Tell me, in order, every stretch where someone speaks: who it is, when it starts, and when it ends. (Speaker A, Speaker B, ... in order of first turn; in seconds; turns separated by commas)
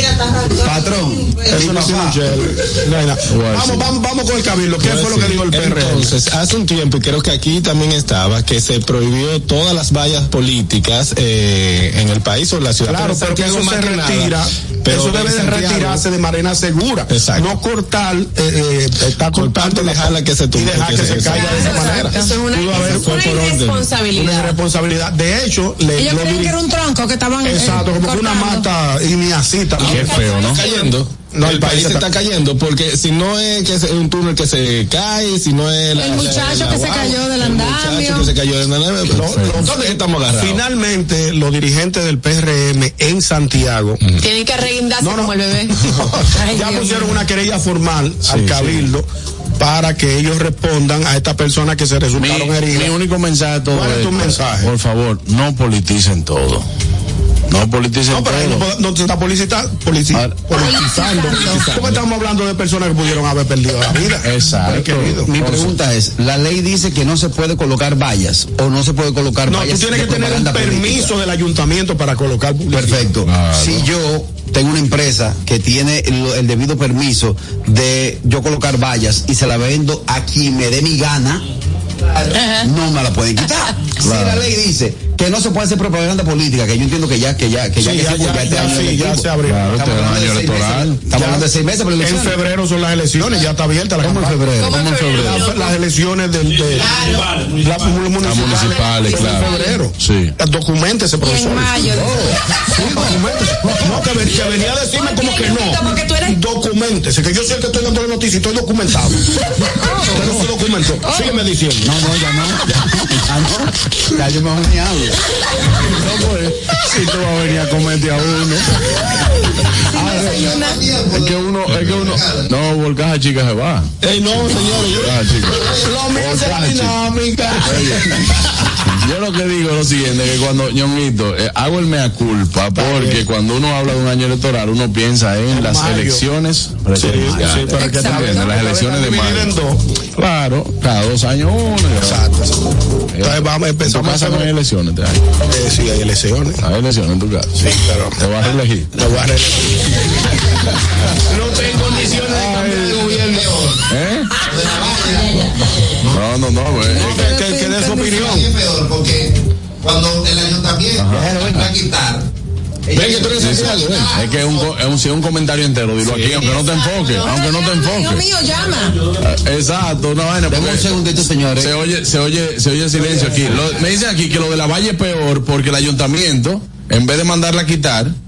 Speaker A: 0.5-2.2, Speaker B: 1.5-6.2, Speaker C: 3.3-3.9, Speaker D: 4.8-16.1, Speaker B: 12.8-23.5, Speaker D: 17.1-17.6, Speaker D: 19.3-22.0, Speaker E: 21.3-24.6, Speaker F: 21.4-22.2, Speaker D: 22.7-23.9, Speaker B: 24.1-26.6, Speaker F: 26.0-28.7, Speaker B: 27.4-30.2, Speaker D: 29.8-40.6, Speaker C: 29.8-30.6, Speaker E: 29.9-31.0, Speaker B: 31.3-32.1, Speaker F: 36.0-38.3, Speaker B: 39.1-44.0, Speaker C: 39.2-39.7, Speaker E: 44.2-45.8, Speaker B: 45.0-49.1, Speaker F: 46.4-47.2, Speaker C: 48.3-48.9, Speaker B: 49.6-52.9, Speaker C: 52.2-56.7, Speaker B: 53.7-54.7, Speaker C: 57.5-58.7, Speaker B: 58.1-65.3, Speaker F: 60.5-61.7, Speaker D: 61.4-62.0, Speaker C: 64.2-65.8, Speaker A: 65.0-71.2, Speaker B: 69.5-73.1, Speaker A: 72.7-81.4, Speaker C: 73.3-73.9, Speaker A: 82.1-92.4, Speaker C: 84.0-84.5, Speaker B: 87.8-89.8, Speaker C: 89.5-91.0, Speaker B: 91.1-91.5, Speaker B: 92.0-94.5, Speaker A: 94.0-94.8, Speaker C: 94.6-95.5, Speaker E: 94.6-95.8, Speaker B: 95.2-101.9, Speaker C: 98.2-100.3, Speaker E: 99.1-99.7, Speaker F: 101.2-102.3, Speaker A: 101.9-102.4, Speaker B: 102.8-109.3, Speaker E: 104.9-106.4, Speaker F: 109.8-110.2, Speaker B: 110.1-111.9, Speaker F: 111.1-111.3, Speaker A: 111.8-115.2, Speaker C: 116.0-118.8, Speaker F: 119.9-120.8, Speaker A: 119.9-120.7, Speaker G: 120.0-122.5, Speaker C: 121.1-123.9, Speaker D: 124.0-125.1, Speaker B: 124.5-124.8, Speaker C: 124.9-127.0, Speaker B: 125.6-128.3, Speaker C: 127.6-128.3, Speaker C: 128.9-139.5, Speaker B: 132.8-133.2, Speaker B: 135.5-136.2, Speaker B: 137.0-139.8, Speaker D: 137.2-137.6, Speaker F: 137.8-138.5, Speaker C: 140.2-142.2, Speaker B: 142.0-142.7, Speaker C: 143.2-145.2, Speaker B: 143.2-144.5, Speaker B: 145.4-146.6, Speaker C: 146.6-147.6, Speaker B: 147.6-148.2, Speaker C: 148.2-149.1, Speaker B: 149.0-149.9, Speaker B: 151.3-153.5, Speaker G: 151.9-153.8, Speaker C: 153.9-154.3, Speaker G: 154.4-156.2, Speaker C: 156.1-157.1, Speaker F: 156.9-158.3, Speaker B: 156.9-158.5, Speaker G: 158.0-162.3, Speaker C: 161.0-161.7, Speaker G: 162.9-164.6, Speaker D: 162.9-164.1, Speaker C: 163.2-168.2, Speaker D: 166.0-166.5, Speaker F: 167.0-169.0, Speaker C: 169.2-171.0, Speaker A: 170.5-171.8, Speaker C: 171.6-178.1, Speaker A: 172.9-173.5, Speaker G: 173.5-173.8